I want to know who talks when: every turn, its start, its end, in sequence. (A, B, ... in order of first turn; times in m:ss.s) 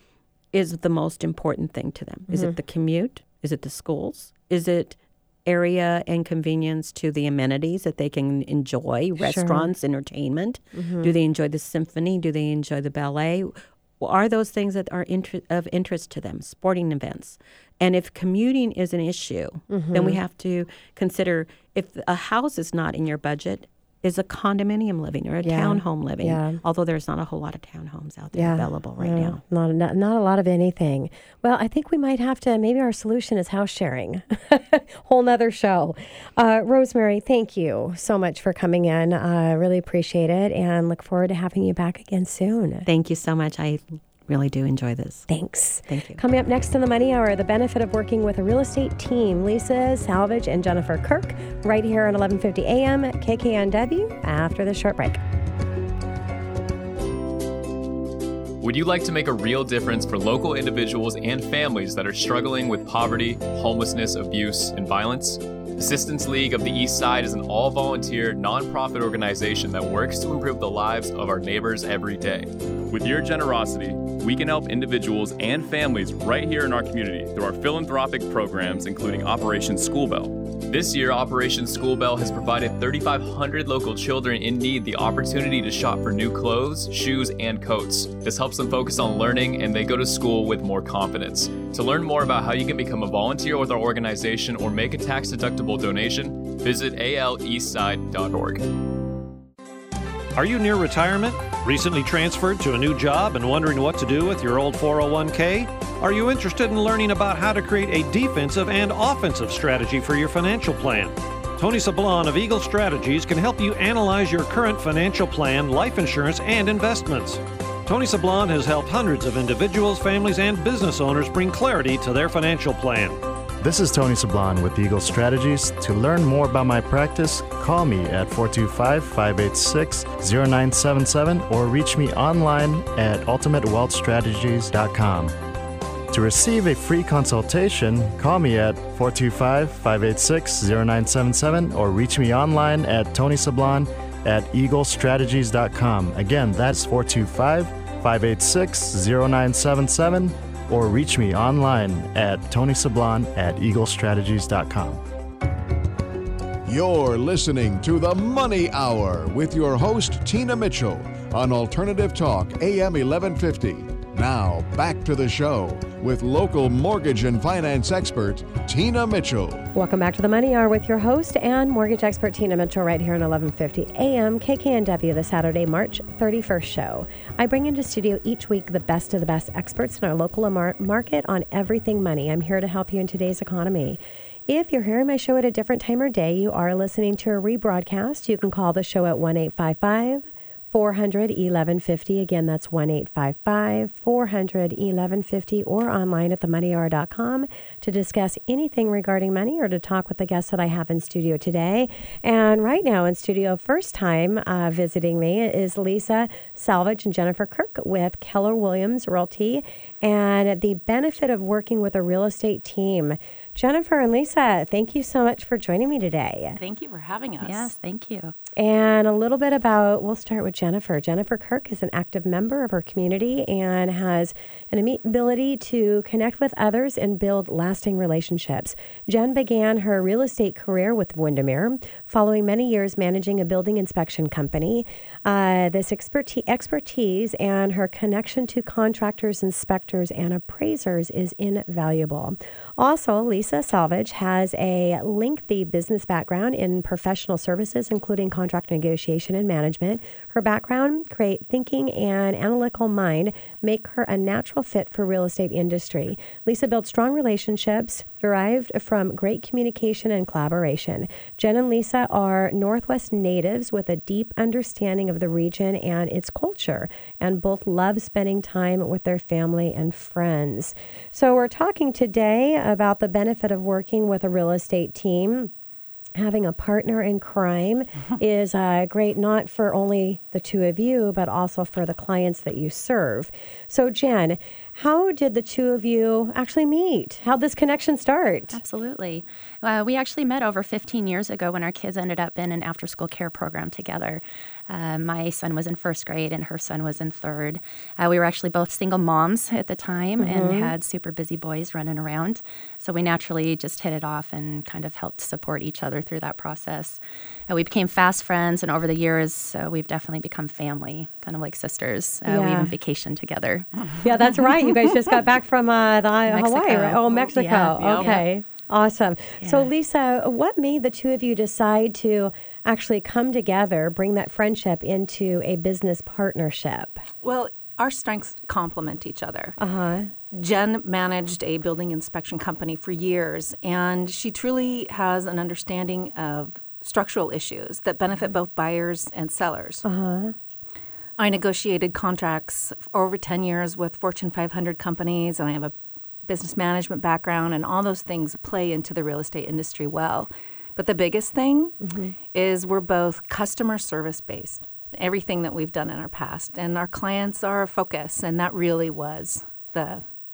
0:00.5-0:29.4 A
0:02.3-0:02.5 B
0:09.2-0:09.7 B
0:10.8-0:11.1 B
0:19.7-0:20.2 B
0:25.4-0:26.6 B
0:28.3-0:42.8 B
0:42.8-0:45.2 A
0:45.3-0:55.2 B
0:45.9-0:46.2 A
0:58.6-1:38.8 C
1:40.4-2:03.2 D
2:03.6-2:15.4 E
2:16.1-2:35.0 E
2:36.6-2:49.7 F
2:49.7-3:36.6 B
3:36.6-3:37.7 G
3:37.4-3:38.3 H
3:38.6-4:35.5 B
4:36.2-4:48.6 B
4:48.5-5:13.7 H
5:00.2-5:00.7 B
5:12.3-5:12.7 B
5:14.0-5:27.0 B
5:16.3-5:18.2 H
5:19.4-5:19.7 H
5:27.2-5:29.6 G
5:29.6-5:30.1 B
5:30.3-5:39.8 G
5:39.8-5:40.3 B
5:41.2-5:45.7 G
5:46.2-5:51.8 G
5:51.8-5:52.1 B
5:52.3-6:00.0 G